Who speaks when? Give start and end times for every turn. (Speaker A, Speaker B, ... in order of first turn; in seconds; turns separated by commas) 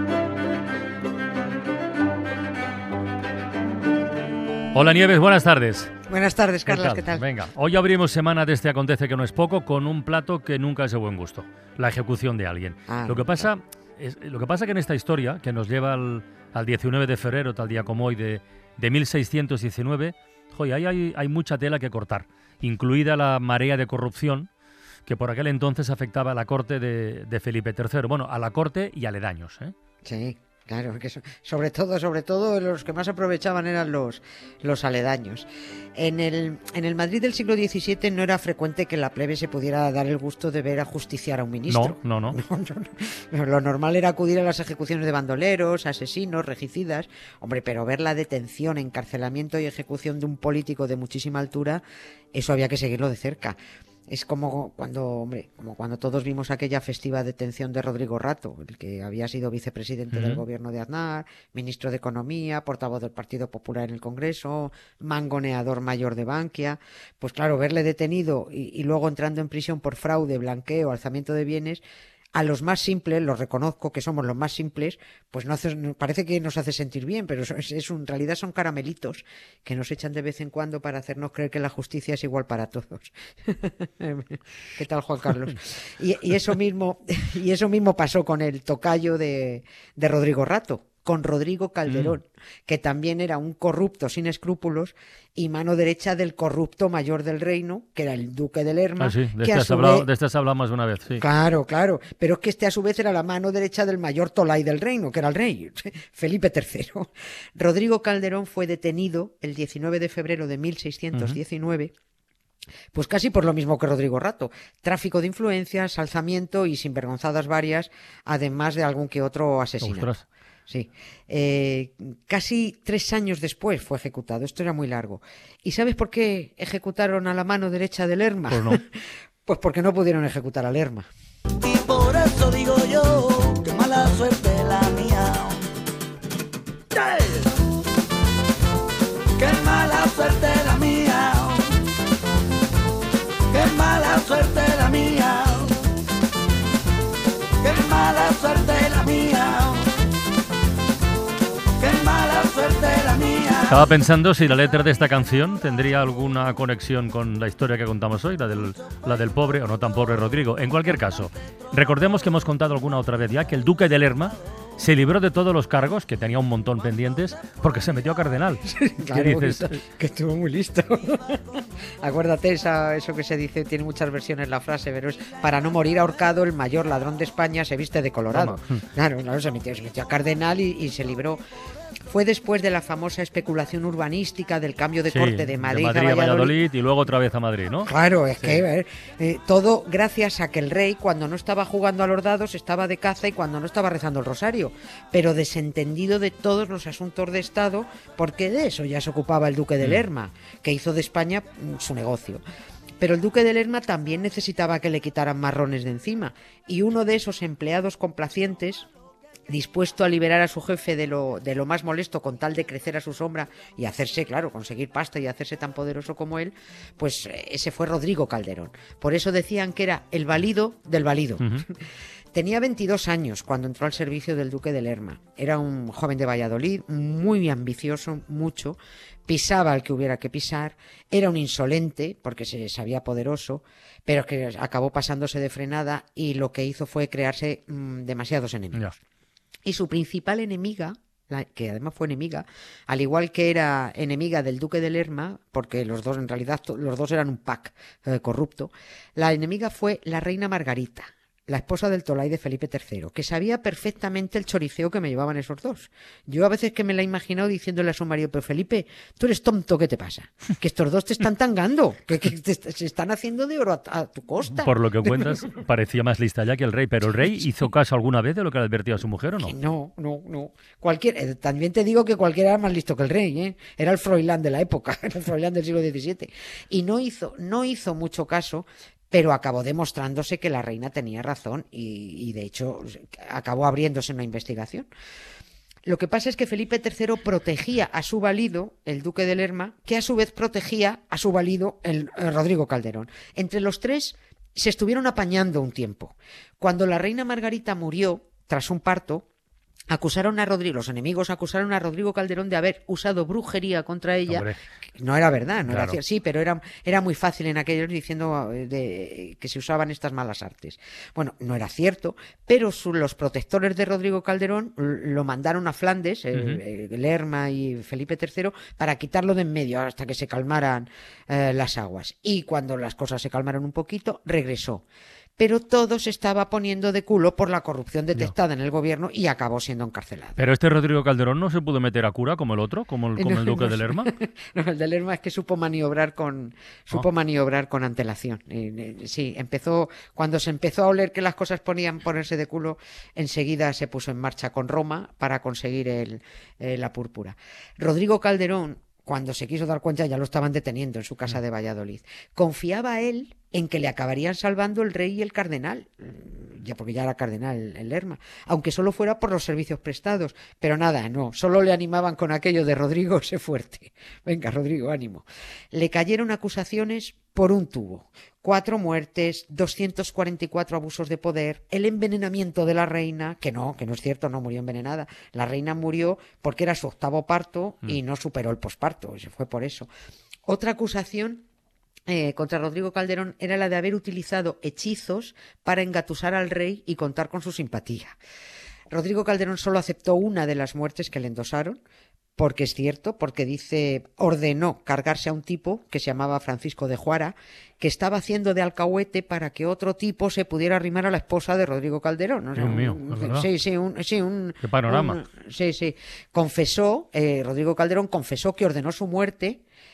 Speaker A: 4.7-5.9, Speaker B: 6.1-7.3, Speaker A: 6.7-24.5, Speaker B: 12.9-13.5, Speaker A: 25.1-29.7, Speaker B: 30.0-51.8, Speaker A: 41.7-42.4, Speaker B: 52.3-53.6, Speaker B: 54.1-71.8, Speaker A: 60.1-60.4, Speaker B: 72.3-100.1, Speaker A: 91.9-92.2, Speaker A: 99.0-101.2, Speaker B: 101.2-111.9, Speaker B: 112.9-120.1, Speaker A: 119.8-120.2, Speaker B: 120.7-128.9, Speaker A: 128.5-128.8, Speaker B: 129.4-131.1, Speaker C: 131.6-135.6, Speaker C: 136.9-137.5, Speaker C: 139.4-141.7, Speaker C: 143.5-145.8, Speaker C: 147.6-149.9, Speaker C: 151.8-153.8, Speaker A: 153.7-169.8, Speaker B: 168.7-181.4, Speaker A: 178.3-178.8, Speaker B: 182.1-186.6, Speaker A: 185.1-188.6, Speaker B: 187.8-202.4, Speaker B: 203.0-208.9, Speaker B: 209.5-238.9, Speaker B: 239.7-265.3, Speaker A: 264.6-269.5, Speaker B: 269.4-284.9, Speaker B: 285.9-299.2, Speaker B: 299.9-324.8, Speaker A: 304.3-304.6, Speaker A: 305.7-306.0, Speaker A: 316.4-316.6, Speaker B: 325.4-330.4, Speaker A: 330.4-334.1, Speaker B: 333.2-379.9, Speaker B: 380.5-381.4, Speaker B: 382.1-388.2, Speaker B: 388.9-391.8, Speaker B: 392.4-409.6, Speaker A: 402.6-403.5, Speaker A: 404.6-405.2